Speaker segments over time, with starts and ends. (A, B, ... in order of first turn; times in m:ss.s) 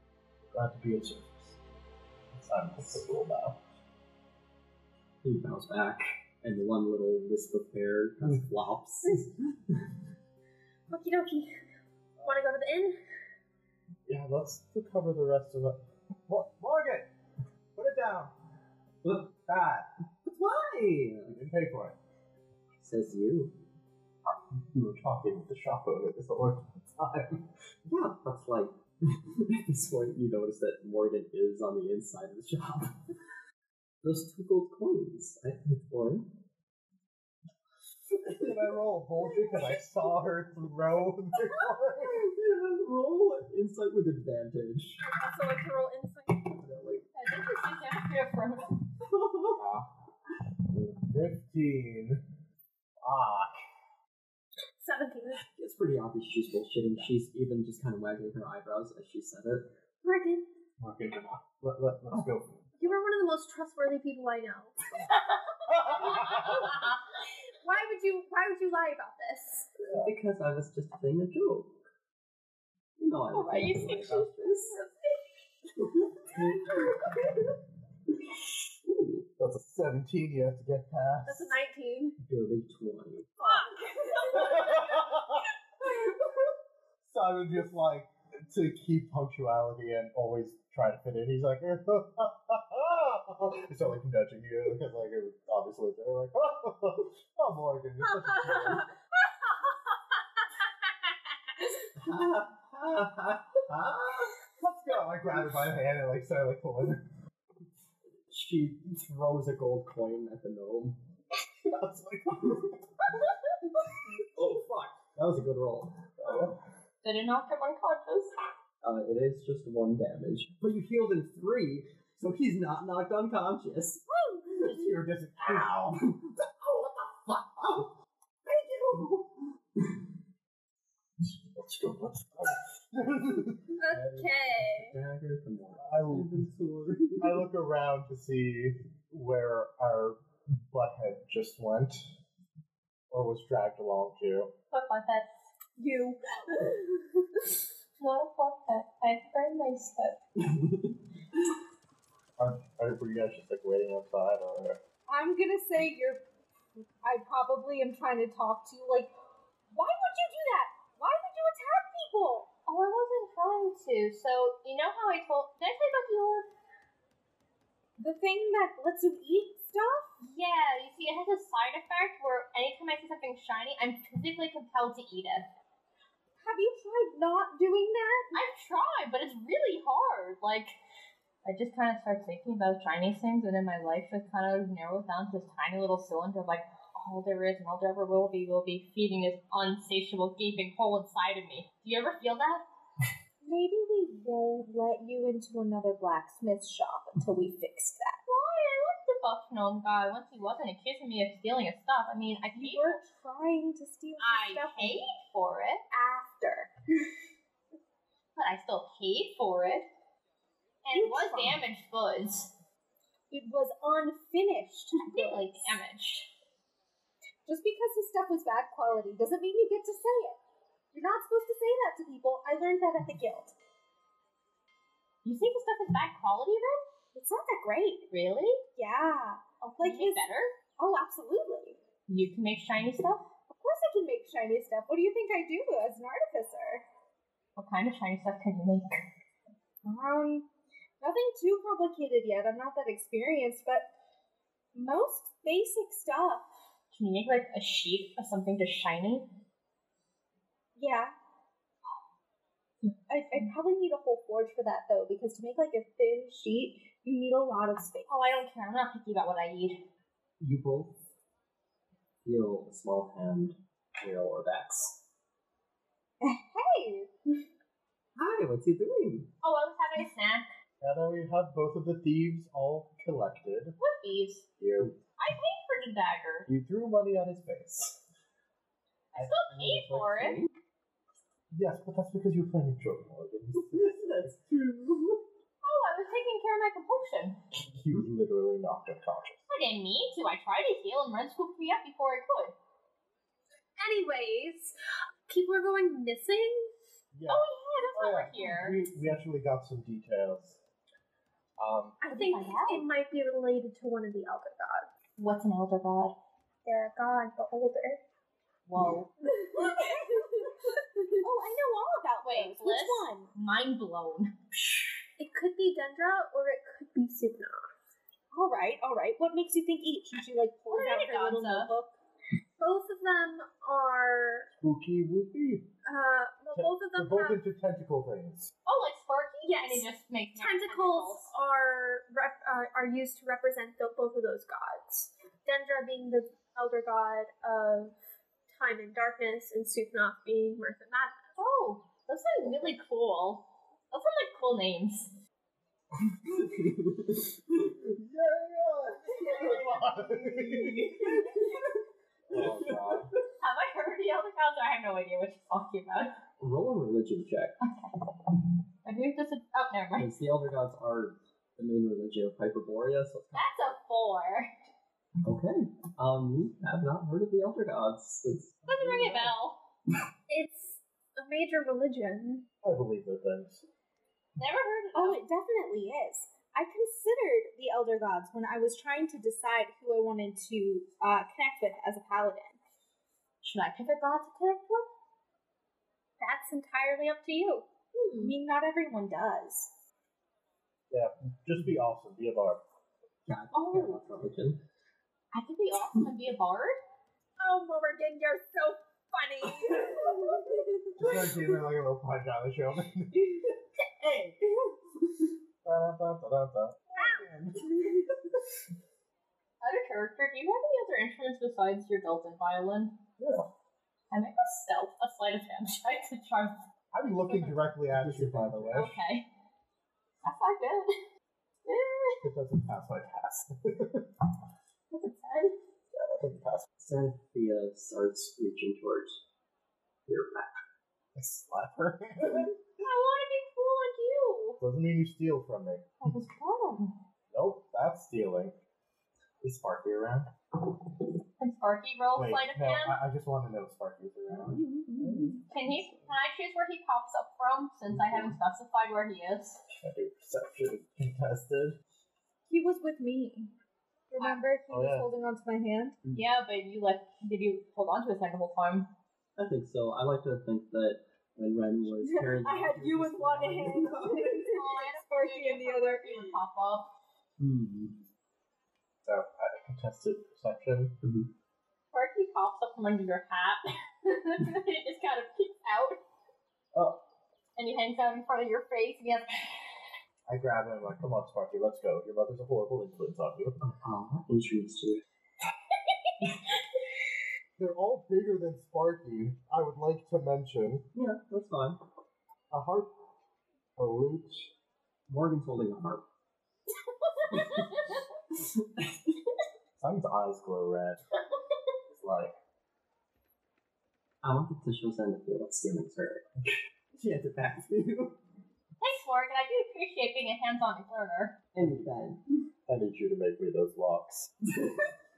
0:00.5-0:01.6 A
0:02.3-0:03.6 A
0:05.2-0:09.9 B
0:10.9-0:11.6 C
0:12.2-0:12.4 A
0:12.2-0:13.0 C
0:14.1-0:17.1 A
0:17.8-0:18.3 A
0:19.0-0:19.4 B
0:19.4-0:19.9 A
0:20.2-0:21.3 B
0:21.3-0:22.0 A
0:22.8-0:23.6 B
0:24.5-0:27.3 A
0:27.8-0:33.0 B
0:34.0-0:36.2 B
0:38.2-0:38.6 B
0:38.3-0:42.2 A
0:39.4-0:39.8 B
0:42.0-0:45.0 B
0:45.0-0:46.5 C
0:46.5-0:47.0 B
0:47.1-0:48.8 D
0:49.0-0:49.6 B
0:49.5-0:49.9 A
0:50.7-0:52.2 A
0:53.0-0:53.6 A
0:54.8-0:55.4 C
0:55.6-0:59.7 B
1:00.0-1:00.4 C
1:00.8-1:02.9 A
1:02.8-1:04.7 C
1:05.8-1:06.6 A
1:07.6-1:09.7 C
1:09.8-1:10.1 A
1:09.9-1:11.7 B
1:13.0-1:14.8 B
1:13.3-1:14.3 D
1:15.8-1:17.5 B
1:18.3-1:19.3 B
1:19.4-1:21.6 A
1:21.2-1:22.2 C
1:22.2-1:23.3 B
1:23.4-1:25.0 C
1:24.2-1:25.3 A
1:27.0-1:38.9 A
1:42.0-1:44.3 B
1:44.6-1:47.0 A
1:48.3-1:51.0 B
1:51.6-1:52.8 A
1:52.4-1:52.7 B
1:54.3-1:56.5 B
1:56.2-1:56.6 A
1:57.0-1:58.3 D
1:58.8-2:04.0 B
2:04.1-2:04.4 C
2:04.6-2:06.1 A
2:05.4-2:07.9 B
2:08.4-2:09.9 B
2:11.2-2:13.7 A
2:13.8-2:15.0 C
2:13.9-2:17.4 B
2:15.8-2:16.5 A
2:17.2-2:22.1 A
2:23.1-2:24.5 A
2:24.7-2:25.3 D
2:25.8-2:26.7 E
2:28.0-2:30.2 D
2:30.4-2:31.4 B
2:32.4-2:34.8 A
2:35.1-2:36.2 E
2:37.0-2:39.1 E
2:39.7-2:42.5 E
2:42.7-2:46.5 D
2:48.0-2:50.1 E
2:50.2-2:55.4 D
2:56.4-2:58.3 E
2:58.3-3:00.7 D
3:01.4-3:12.6 D
3:13.4-3:18.2 E
3:18.3-3:23.0 D
3:22.5-3:25.0 E
3:24.2-3:25.8 D
3:25.9-3:26.7 E
3:28.4-3:29.9 D
3:30.8-3:32.5 D
3:30.9-3:31.6 E
3:33.3-3:35.8 E
3:35.0-3:36.3 D
3:37.4-3:40.4 E
3:40.9-3:43.5 E
3:45.2-3:46.8 D
3:47.1-3:48.1 E
3:48.1-3:48.6 D
3:48.8-3:50.2 E
3:49.6-3:50.5 D
3:50.8-3:51.8 E
3:52.1-3:53.3 D
3:53.5-3:56.8 E
3:57.6-3:59.0 D
3:59.8-4:00.5 E
4:01.0-4:03.9 E
4:04.7-4:06.5 E
4:06.9-4:09.2 D
4:10.8-4:11.1 E
4:13.1-4:18.1 E
4:18.1-4:19.8 D
4:20.4-4:21.0 B
4:22.2-4:25.0 B
4:26.2-4:27.1 E
4:28.2-4:29.3 B
4:29.4-4:30.5 D
4:30.8-4:33.8 A
4:33.8-4:34.4 D
4:34.6-4:34.9 A
4:35.2-4:36.5 D
4:36.5-4:38.0 A
4:39.1-4:40.4 D
4:39.5-4:40.5 B
4:41.5-4:44.3 A
4:43.5-4:45.2 B
4:45.6-4:47.4 D
4:47.7-4:49.4 A
4:49.5-4:52.6 D
4:53.8-4:54.7 C
4:55.3-4:56.7 C
4:57.1-5:00.6 A
4:57.3-4:58.8 D
5:01.6-5:02.0 A
5:02.0-5:04.9 C
5:02.0-5:02.9 D
5:05.2-5:06.1 D
5:06.6-5:08.0 C
5:08.7-5:09.1 D
5:09.4-5:10.5 E
5:09.5-5:10.3 C
5:11.2-5:13.3 E
5:12.2-5:14.3 D
5:15.2-5:17.7 C
5:18.3-5:21.9 E
5:20.7-5:21.7 D
5:22.6-5:24.5 C
5:24.5-5:25.7 A
5:25.8-5:27.4 C
5:26.5-5:28.5 A
5:28.6-5:31.3 D
5:29.4-5:38.0 C
5:38.5-5:41.4 C
5:41.4-5:45.1 D
5:46.1-5:47.8 B
5:48.0-5:51.3 A
5:49.2-5:51.6 B
5:52.3-5:53.1 A
5:52.3-5:53.1 B
5:53.4-5:56.2 D
5:56.4-5:57.6 B
5:57.6-5:58.0 D
5:58.8-6:00.1 D
6:00.0-6:03.8 B
6:03.3-6:04.5 D
6:05.2-6:09.3 B
6:08.6-6:09.6 D
6:10.3-6:12.5 C
6:12.6-6:13.6 A
6:14.4-6:15.2 D
6:14.9-6:22.6 E
6:23.4-6:24.9 D
6:26.2-6:27.6 C
6:27.9-6:28.3 D
6:28.2-6:29.7 E
6:30.9-6:32.6 A
6:33.2-6:34.6 B
6:33.6-6:33.9 D
6:35.3-6:36.8 D
6:37.4-6:41.0 E
6:41.0-6:43.4 A
6:44.0-6:44.8 B
6:45.6-6:47.7 A
6:49.6-6:53.0 D
6:53.2-6:53.5 A
6:54.1-6:56.6 D
6:56.9-6:59.0 A
6:57.3-6:57.6 D
6:57.9-6:58.9 B
6:58.7-6:59.3 D
7:00.2-7:01.0 D
7:01.6-7:02.2 D
7:02.2-7:04.1 A
7:04.9-7:05.6 D
7:05.9-7:06.7 A
7:06.8-7:09.2 B
7:10.1-7:10.6 B
7:11.2-7:12.5 A
7:12.8-7:14.6 D
7:14.6-7:15.9 A
7:16.0-7:17.0 D
7:17.3-7:18.6 A
7:19.4-7:20.3 A
7:21.4-7:23.0 D
7:22.1-7:25.4 A
7:24.3-7:25.4 B
7:25.5-7:29.6 D
7:27.9-7:28.4 A
7:29.8-7:31.8 A
7:32.5-7:33.5 E
7:34.1-7:36.0 E
7:34.7-7:35.1 A
7:36.1-7:38.9 D
7:39.4-7:44.5 B
7:42.0-7:46.3 E
7:44.5-7:46.9 D
7:47.4-7:48.0 B
7:49.0-7:51.0 A
7:51.0-7:51.3 B
7:51.9-7:56.0 D
7:56.7-7:57.0 A
7:57.6-7:59.7 D
8:00.3-8:03.6 A
8:03.6-8:05.0 B
8:07.6-8:10.8 A
8:10.9-8:11.8 B
8:12.5-8:12.9 A
8:13.8-8:14.5 A
8:15.1-8:16.0 B
8:17.0-8:18.0 D
8:17.3-8:17.6 B
8:18.3-8:19.1 B
8:19.8-8:21.0 A
8:21.9-8:22.3 A
8:24.2-8:28.2 B
8:28.8-8:31.4 D
8:31.5-8:32.2 B
8:32.7-8:34.3 A
8:34.5-8:34.9 B